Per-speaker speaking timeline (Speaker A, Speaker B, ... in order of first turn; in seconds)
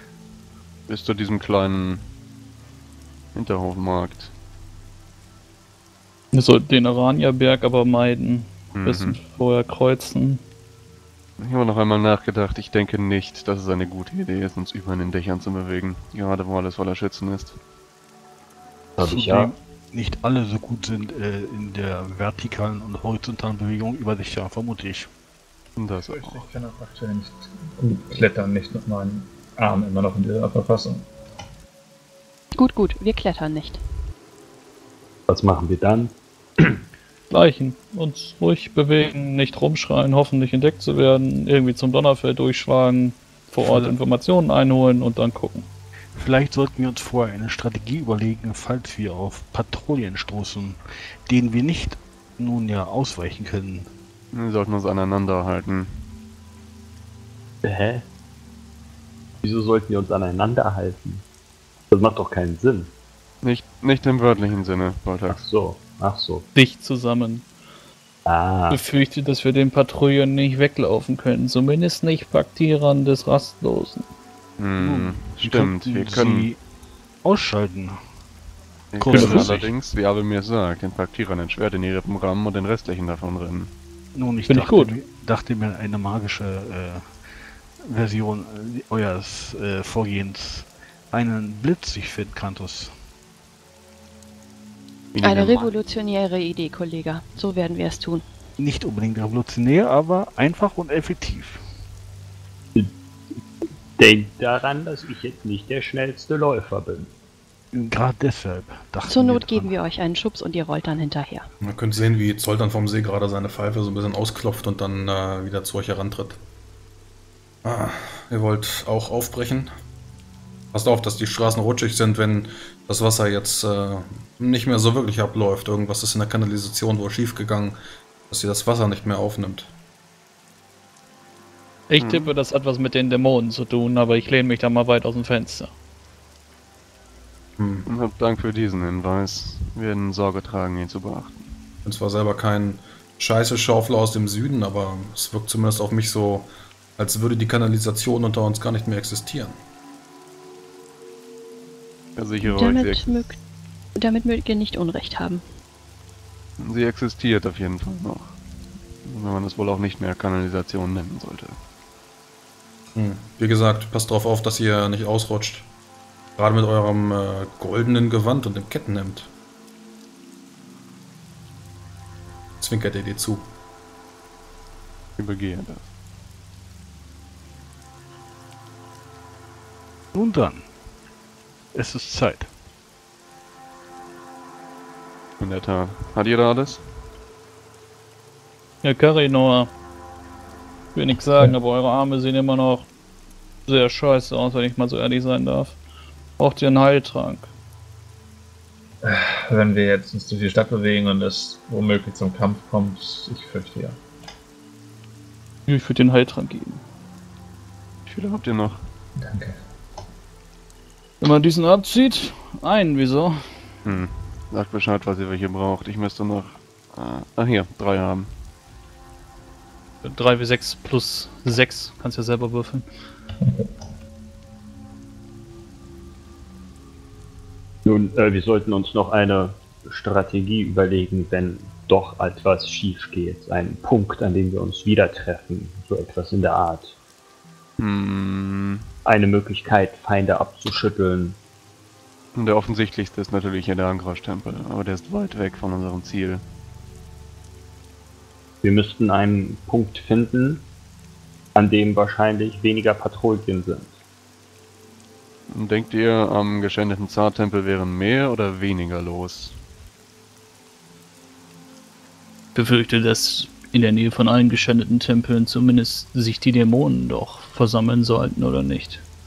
Speaker A: 0.9-2.0, 3.4-4.3, 8.8-9.2, 11.4-17.6, 25.8-26.5, 54.3-56.1, 63.4-65.4, 74.6-76.5, 78.9-83.7, 95.1-95.7, 132.0-132.4, 137.9-141.6, 152.2-153.3, 156.6-158.4, 159.1-161.6, 175.2-175.9, 185.4-186.8, 208.1-208.8, 213.8-218.3, 237.8-238.9, 242.3-246.4, 255.5-259.6
Speaker B: 6.3-10.4, 37.3-45.7, 66.5-67.5, 68.7-74.1, 79.2-79.5, 84.5-85.0, 131.9-135.7, 188.8-189.7, 190.9-192.9, 193.7-195.8, 196.4-197.5, 205.7-206.8, 211.2-213.4, 220.0-222.9, 262.6-269.0
Speaker C: 19.0-19.5, 35.3-36.8, 57.6-58.1, 59.4-61.3, 61.9-62.9, 65.3-66.5, 68.3-68.8, 104.0-107.1, 227.8-237.0, 239.1-241.4, 248.6-250.7, 251.6-254.0
Speaker D: 19.0-25.1, 43.6-44.0, 46.1-53.9, 74.8-76.6, 77.2-78.0, 79.0-79.7, 84.2-87.0, 87.8-92.9, 98.6-101.6, 107.7-109.8, 180.1-180.7, 181.7-182.5
Speaker E: 26.0-31.1, 199.0-204.0, 209.2-209.6, 223.4-223.7
Speaker F: 32.6-33.8, 95.2-98.2, 109.1-111.5, 152.4-153.4, 154.0-155.4
Speaker G: 111.6-116.4, 117.6-119.7, 120.7-127.8, 128.3-129.7, 137.6-137.9, 141.8-149.6, 162.9-165.7, 166.4-169.3, 172.6-173.5